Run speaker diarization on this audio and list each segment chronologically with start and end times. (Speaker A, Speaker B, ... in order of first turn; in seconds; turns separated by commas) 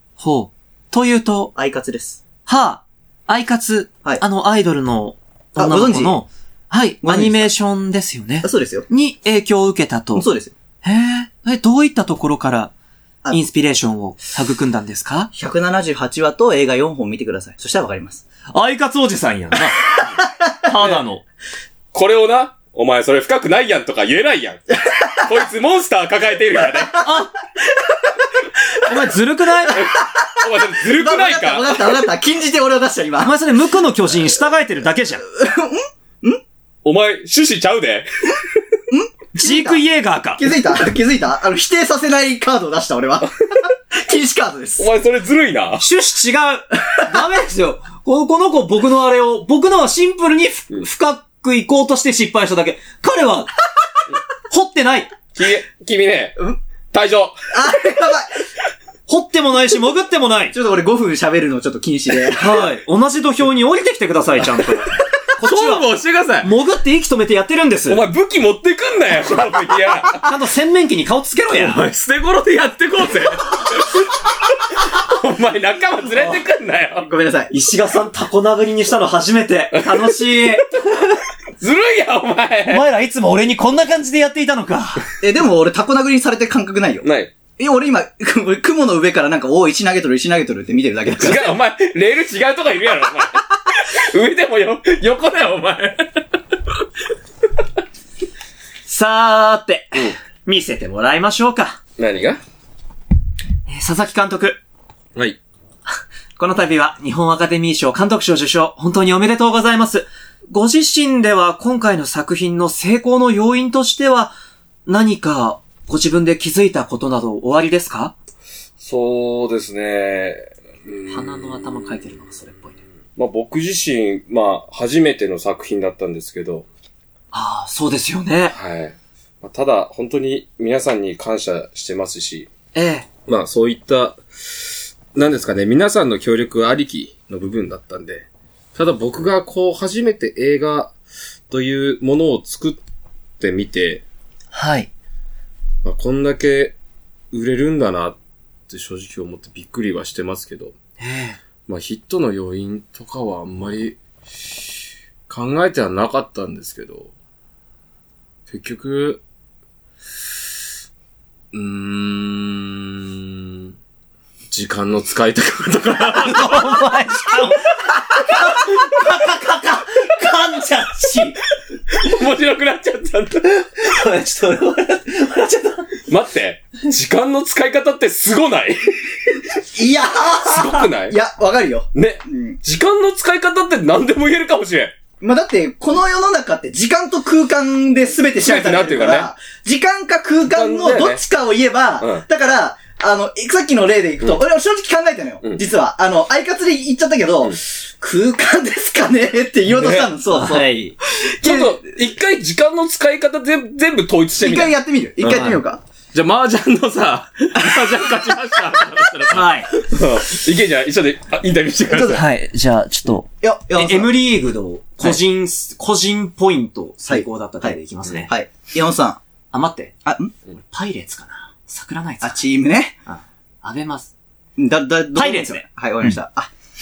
Speaker A: 0.2-1.5, Speaker B: 1.6-2.2, Speaker A: 2.5-10.3, Speaker B: 5.6-6.2, Speaker B: 7.0-7.5, Speaker B: 8.4-8.9, Speaker B: 10.2-10.6, Speaker A: 10.8-12.7, Speaker A: 13.3-15.3, Speaker B: 15.3-18.2, Speaker A: 18.5-20.1, Speaker B: 20.0-20.7, Speaker A: 20.6-21.2, Speaker C: 21.9-27.0, Speaker A: 27.0-27.3, Speaker B: 27.8-28.1, Speaker A: 28.9-29.8, Speaker B: 29.7-33.3, Speaker C: 29.7-32.0, Speaker A: 33.2-35.3, Speaker B: 35.3-36.4, Speaker C: 36.8-38.3, Speaker B: 38.9-39.8, Speaker A: 39.4-40.5, Speaker B: 40.4-44.9, Speaker C: 44.8-45.9, Speaker A: 45.8-53.5, Speaker A: 54.5-55.1, Speaker C: 55.4-57.5, Speaker B: 57.5-58.4, Speaker A: 59.1-60.5, Speaker B: 60.5-62.7, Speaker A: 62.4-65.9, Speaker C: 65.4-66.5, Speaker A: 66.4-68.0, Speaker C: 67.9-70.3, Speaker A: 70.2-71.9, Speaker C: 71.5-74.2, Speaker C: 74.8-77.1, Speaker B: 77.0-77.5, Speaker A: 77.5-81.1, Speaker C: 79.7-80.2, Speaker C: 81.6-82.9, Speaker A: 82.7-85.0, Speaker B: 85.2-87.1, Speaker C: 87.0-87.3, Speaker B: 87.6-91.5, Speaker C: 91.2-96.2, Speaker A: 98.9-101.8, Speaker C: 102.0-102.4, Speaker A: 103.7-104.6, Speaker A: 106.4-114.3, Speaker A: 114.9-118.2, Speaker C: 118.8-122.2, Speaker A: 121.1-122.8, Speaker C: 123.2-126.7, Speaker A: 127.3-128.6, Speaker C: 128.5-132.5, Speaker A: 132.8-133.1, Speaker C: 133.3-140.9, Speaker C: 141.5-142.8, Speaker C: 143.4-144.0, Speaker A: 144.5-144.9, Speaker C: 145.8-146.8, Speaker C: 147.3-148.2, Speaker C: 148.7-150.7, Speaker A: 151.0-151.4, Speaker C: 151.7-154.0, Speaker C: 155.3-157.1, Speaker C: 158.5-159.2, Speaker C: 161.5-163.7, Speaker C: 164.5-166.8, Speaker A: 166.0-171.4, Speaker C: 171.9-173.8, Speaker A: 173.8-176.0, Speaker C: 176.1-179.4, Speaker B: 179.7-182.6, Speaker C: 180.4-181.2, Speaker C: 181.9-184.9, Speaker B: 185.2-200.7, Speaker C: 188.4-189.3, Speaker C: 190.5-191.2, Speaker C: 192.0-192.2, Speaker C: 199.7-200.1, Speaker A: 200.3-200.9, Speaker B: 201.3-201.8, Speaker C: 201.4-205.6, Speaker B: 204.4-205.8, Speaker C: 206.1-212.2, Speaker B: 207.6-208.3, Speaker A: 209.3-209.7, Speaker B: 211.9-212.2, Speaker A: 212.1-218.3, Speaker B: 213.4-214.1, Speaker B: 217.1-219.2, Speaker A: 219.5-219.9, Speaker B: 220.1-220.3, Speaker A: 220.6-222.4, Speaker B: 222.2-223.0, Speaker A: 223.1-224.1, Speaker B: 224.6-226.5, Speaker A: 225.2-225.6